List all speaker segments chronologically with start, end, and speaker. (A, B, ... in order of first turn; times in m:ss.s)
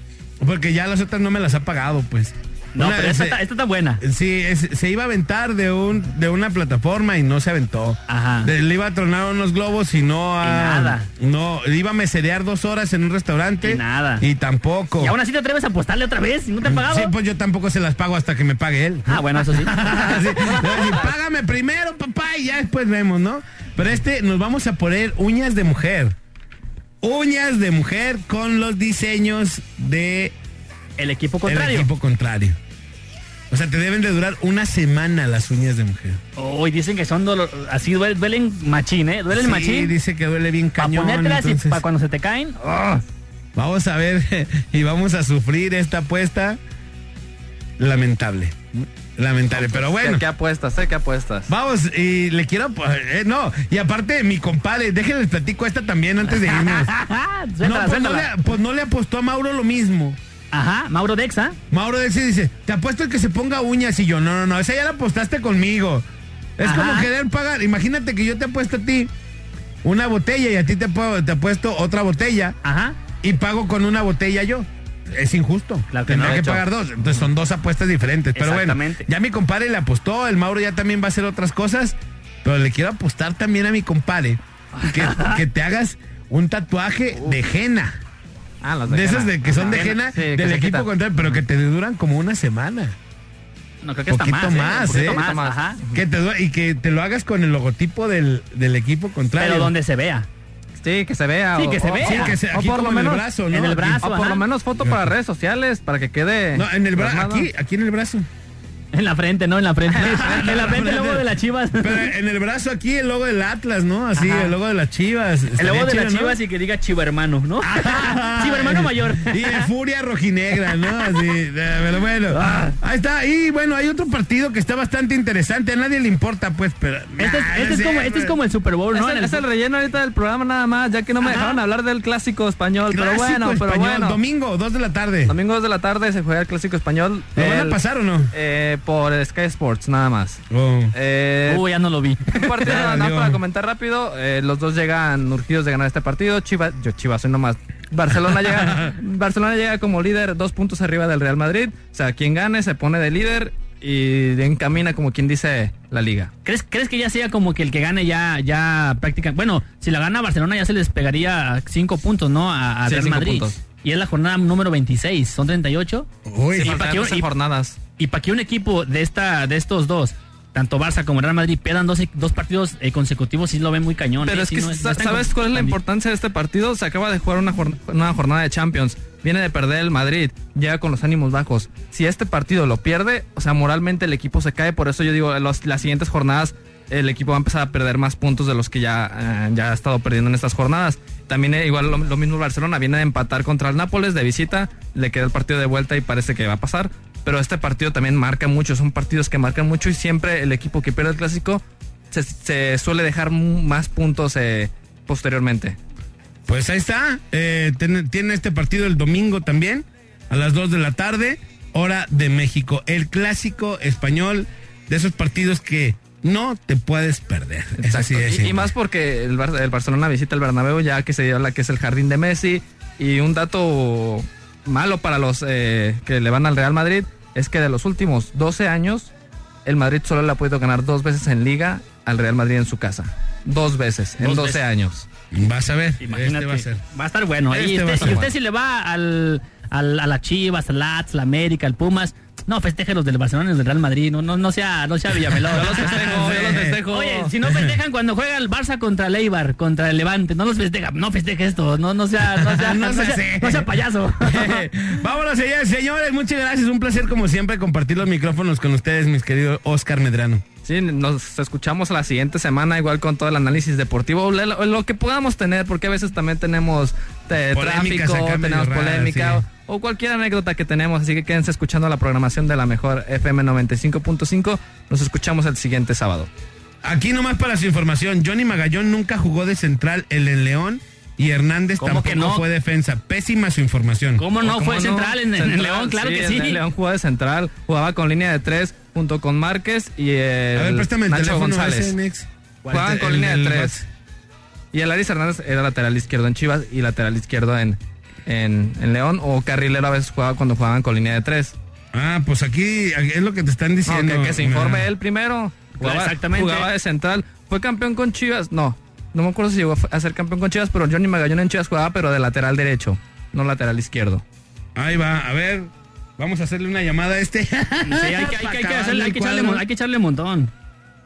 0:00.4-0:03.4 A
0:02.7-0:04.0 B
0:04.0-0:15.1 A
0:08.1-0:08.5 B
0:10.4-0:11.1 B
0:13.6-0:14.2 B
0:15.0-0:17.1 B
0:16.6-0:26.1 A
0:19.1-0:20.9 B
0:27.0-0:30.3 A
0:31.0-0:31.9 B
0:31.4-0:32.6 A
0:33.5-0:36.2 A
0:36.4-0:39.9 B
0:39.3-0:41.8 A
0:40.8-0:43.0 B
0:43.6-0:46.6 A
0:47.8-0:50.2 A
0:49.6-0:51.5 C
0:51.5-0:56.9 A
0:56.3-0:58.3 B
0:57.6-1:00.2 A
1:00.5-1:01.6 B
1:01.7-1:06.0 A
1:06.6-1:09.1 A
1:06.6-1:07.1 B
1:09.8-1:12.6 A
1:12.6-1:13.0 B
1:13.2-1:28.0 A
1:15.9-1:16.6 B
1:16.2-1:16.5 C
1:18.3-1:19.1 B
1:24.7-1:25.4 B
1:28.6-1:30.9 C
1:28.9-1:33.0 A
1:29.6-1:30.0 B
1:33.8-1:35.8 B
1:34.1-1:35.2 A
1:34.9-1:36.0 C
1:35.9-1:39.7 A
1:39.4-1:40.3 B
1:40.8-1:43.2 C
1:41.6-1:42.4 B
1:41.9-1:44.0 A
1:43.5-1:44.4 B
1:44.0-1:47.4 C
1:44.8-1:45.1 A
1:46.5-1:48.3 A
1:48.9-1:52.1 B
1:50.0-1:50.6 C
1:50.0-1:51.2 A
1:51.8-1:56.4 A
1:54.2-1:54.5 B
1:55.6-1:59.7 B
1:57.6-2:08.3 A
2:00.7-2:01.2 B
2:02.3-2:02.8 B
2:07.2-2:09.4 B
2:08.9-2:14.2 C
2:11.2-2:11.6 B
2:12.9-2:15.3 A
2:15.3-2:21.6 C
2:17.4-2:18.3 A
2:20.5-2:20.9 A
2:21.5-2:22.7 B
2:22.3-2:36.3 C
2:22.7-2:23.4 A
2:28.5-2:28.9 A
2:36.4-2:46.1 B
2:42.9-2:43.6 C
2:46.2-2:46.8 A
2:46.5-2:47.8 C
2:46.6-2:47.3 B
2:48.0-2:55.8 B
2:54.2-3:25.8 C
3:26.5-3:38.7 A
3:37.8-3:49.1 C
3:49.6-3:55.0 C
3:54.2-3:54.6 B
3:55.3-3:56.8 A
3:56.0-4:05.9 B
3:57.5-3:58.2 A
3:58.0-3:58.3 C
4:05.5-4:06.8 A
4:05.5-4:07.3 C
4:06.9-4:14.6 B
4:07.4-4:07.8 A
4:12.2-4:20.4 A
4:20.6-4:36.3 C
4:27.5-4:29.4 A
4:36.8-4:44.2 A
4:41.8-4:42.4 B
4:44.2-4:46.6 B
4:44.4-4:51.9 C
4:50.6-4:53.8 A
4:52.7-4:53.8 C
4:54.7-5:01.6 C
5:01.9-5:04.9 A
5:03.8-5:14.2 C
5:05.8-5:06.7 B
5:14.8-5:19.6 A
5:17.8-5:20.5 B